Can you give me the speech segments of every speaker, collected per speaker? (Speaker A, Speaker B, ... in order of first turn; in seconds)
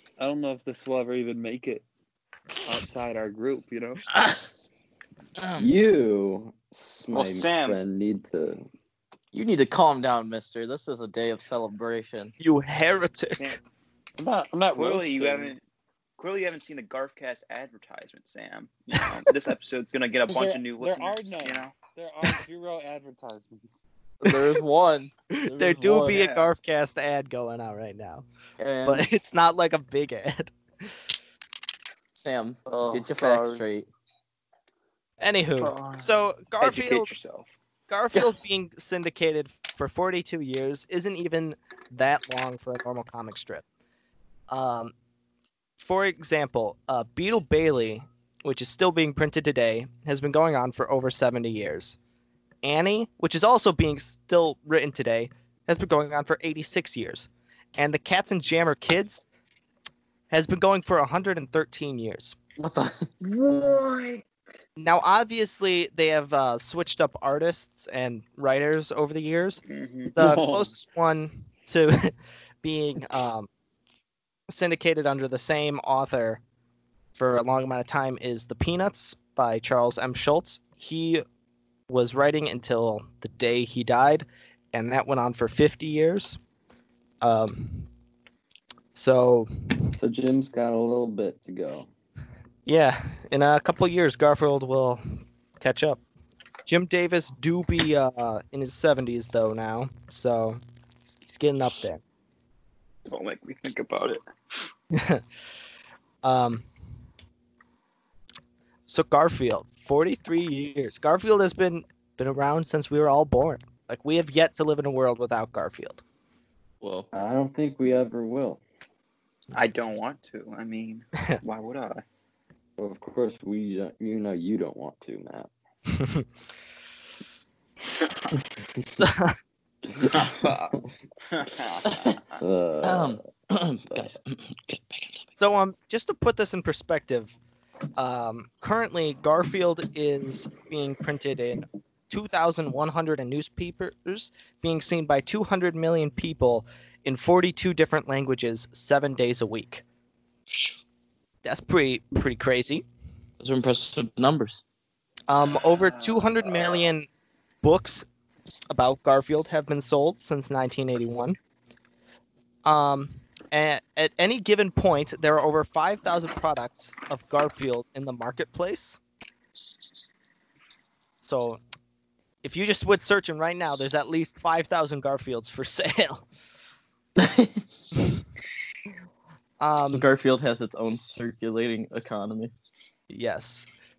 Speaker A: 0.2-1.8, 2.6-4.1, 14.2-15.6, 20.3-23.7, 70.1-70.7
Speaker B: 4.1-4.5, 5.4-5.7, 9.3-12.3, 24.2-26.2, 28.6-29.1, 32.1-33.9, 62.6-63.1, 116.8-117.1, 131.9-132.2, 132.8-135.3, 153.4-154.6, 177.2-177.6, 179.8-182.5
Speaker C: 5.6-8.7, 90.0-91.9, 117.1-118.6, 122.8-125.5, 132.4-133.2, 133.9-134.2
Speaker D: 7.1-7.8, 14.7-15.6, 16.2-21.8, 26.1-26.5, 32.7-33.6, 35.5-37.5, 63.2-64.2, 69.7-70.1, 103.1-104.2, 119.5-122.0, 130.1-132.4, 155.5-156.8
Speaker E: 12.4-13.5, 25.3-28.2, 28.9-30.9, 35.2-37.1, 37.9-43.6, 44.5-44.9, 45.8-52.0, 52.6-59.3, 60.3-62.4, 64.8-69.6, 70.1-73.5, 74.5-76.4, 77.2-81.2, 81.9-86.4, 87.2-87.9, 89.0-89.9, 92.7-95.0, 95.6-96.0, 96.7-102.0, 104.9-105.2, 106.2-106.7, 108.9-116.0, 126.0-126.3, 128.9-129.3, 135.4-137.3, 138.0-149.8, 151.4-152.8, 155.3-157.1, 157.6-158.1, 158.7-161.4, 162.7-169.0, 171.2-171.6, 172.4-176.2, 179.6-180.1, 183.1-183.7